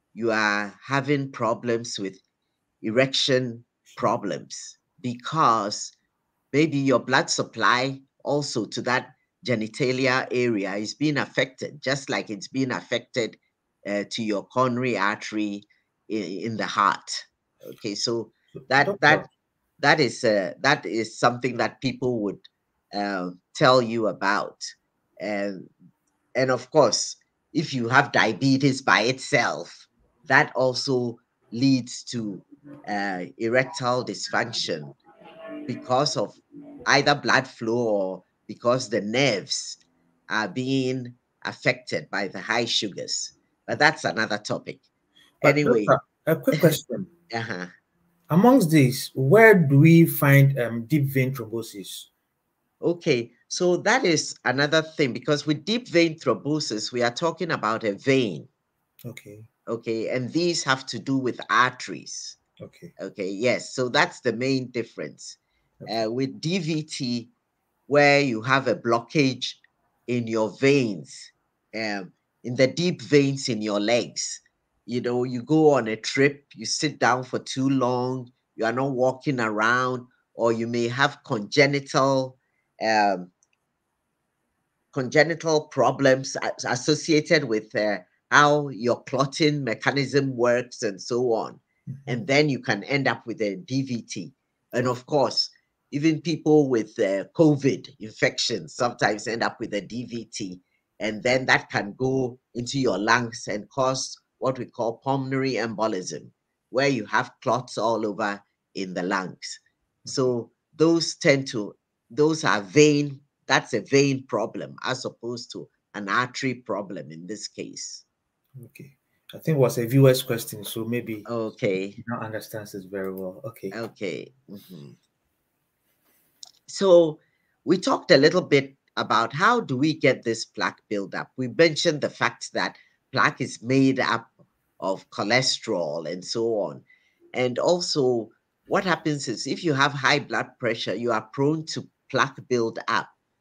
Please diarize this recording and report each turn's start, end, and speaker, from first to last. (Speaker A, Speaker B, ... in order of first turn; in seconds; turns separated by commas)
Speaker A: 0.1-2.2, Speaker A: 2.8-5.9, Speaker A: 6.5-19.2, Speaker B: 18.6-19.3, Speaker A: 19.8-25.7, Speaker A: 26.4-35.0, Speaker A: 35.6-39.8, Speaker A: 40.3-44.8, Speaker B: 45.4-47.1, Speaker A: 45.4-46.0, Speaker A: 47.3-47.7, Speaker B: 48.3-52.1, Speaker A: 52.8-58.5, Speaker B: 59.0-59.5, Speaker A: 59.7-62.4, Speaker B: 62.6-62.9, Speaker A: 63.0-67.3, Speaker A: 67.9-83.3, Speaker A: 84.9-118.0, Speaker B: 110.0-110.3, Speaker B: 118.5-121.3, Speaker A: 121.2-122.0, Speaker B: 122.0-123.7, Speaker A: 123.7-125.0, Speaker A: 126.7-143.1